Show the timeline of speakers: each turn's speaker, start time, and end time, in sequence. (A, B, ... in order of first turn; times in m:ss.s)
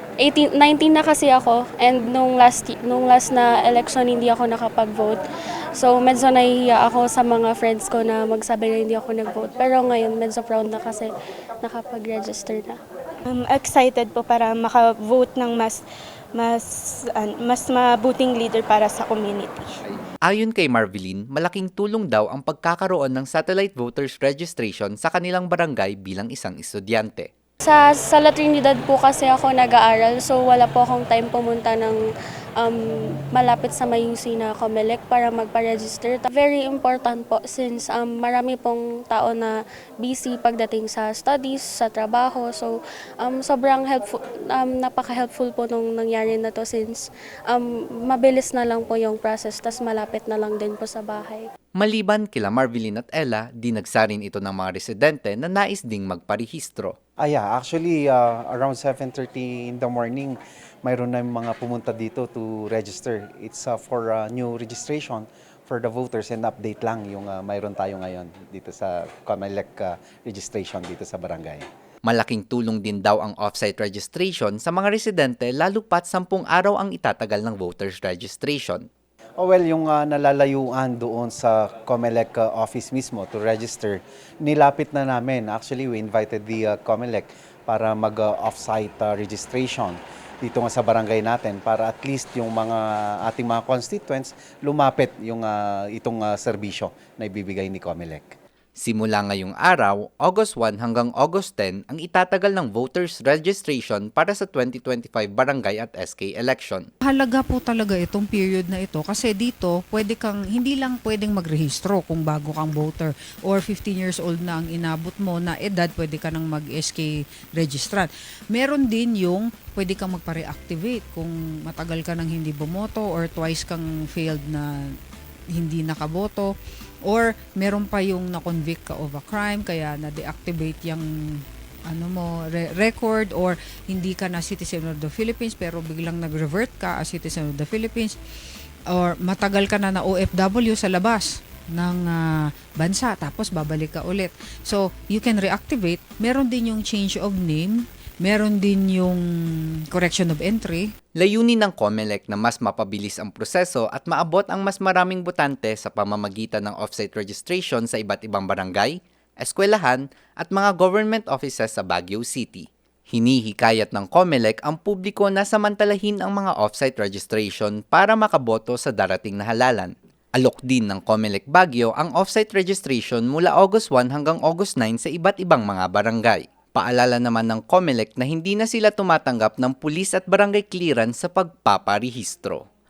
0:00.2-0:05.2 A
0:05.8-0:11.1 A
0:11.6-0:12.8 A
0:13.3-0:15.8 B
0:16.4-0:16.6 B
0:17.2-0:19.5 B
0:20.3-0:27.3 C
0:27.6-0:32.0 A
0:32.6-0:51.5 A
0:51.8-0:56.9 C
0:57.2-1:11.6 D
1:12.0-1:18.9 C
1:19.4-1:38.4 D
1:38.8-1:46.9 C
1:47.0-2:05.0 E
2:05.5-2:06.5 E
2:07.0-2:11.0 E
2:11.9-2:18.2 E
2:18.9-2:29.2 E
2:29.9-2:30.8 E
2:31.2-3:02.6 C